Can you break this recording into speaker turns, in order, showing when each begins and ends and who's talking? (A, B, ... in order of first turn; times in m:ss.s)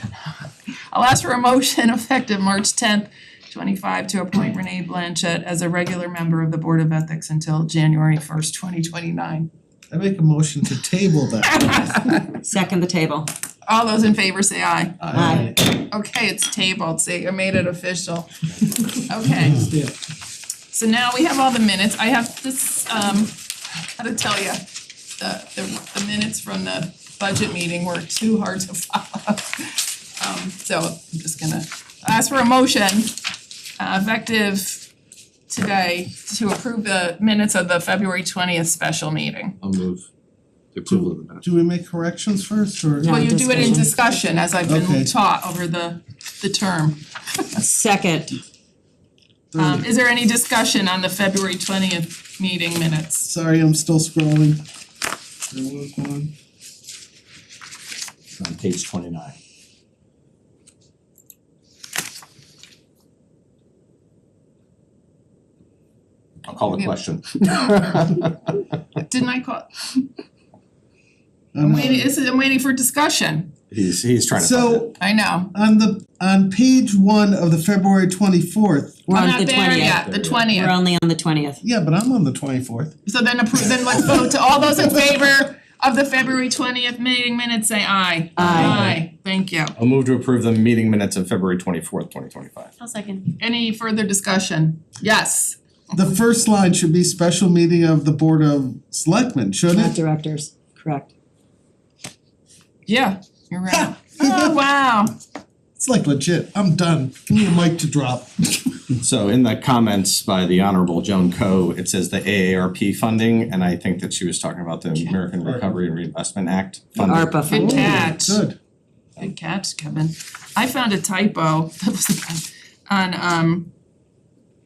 0:00.2-0:09.5 A
0:09.9-0:12.2 B
0:11.4-0:12.3 A
0:12.4-0:13.3 C
0:13.6-0:19.8 A
0:15.0-0:15.6 B
0:15.1-0:15.5 C
0:20.7-0:33.2 A
0:33.8-0:34.9 A
0:35.5-0:39.6 A
0:39.6-0:40.1 D
0:40.7-0:41.4 D
0:40.9-0:43.8 B
0:43.0-0:43.9 C
0:43.0-0:47.0 A
0:44.7-0:45.1 B
0:47.6-0:48.4 C
0:49.5-0:49.9 B
0:49.6-0:53.3 A
0:53.2-0:54.6 B
0:55.5-0:56.3 B
0:58.4-0:59.4 D
1:06.5-1:08.5 D
1:09.1-1:10.1 A
1:11.5-1:12.1 B
1:11.6-1:13.5 A
1:13.7-1:14.9 D
1:14.4-1:15.0 B
1:15.0-1:15.5 A
1:15.5-1:19.0 B
1:19.1-1:20.0 C
1:19.1-1:20.8 A
1:19.8-1:20.4 D
1:20.5-1:21.6 C
1:21.6-1:22.9 B
1:23.1-1:29.8 A
1:28.4-1:28.9 C
1:28.4-1:29.0 D
1:29.8-1:32.7 D
1:33.2-1:35.6 A
1:35.9-1:40.0 B
1:39.7-1:41.1 C
1:42.9-1:45.2 A
1:43.7-1:44.6 B
1:45.8-1:49.0 B
1:49.0-1:57.4 D
1:55.4-1:55.7 B
1:57.0-1:58.1 C
1:57.5-1:58.4 A
1:57.5-1:58.6 B
1:59.2-2:03.7 A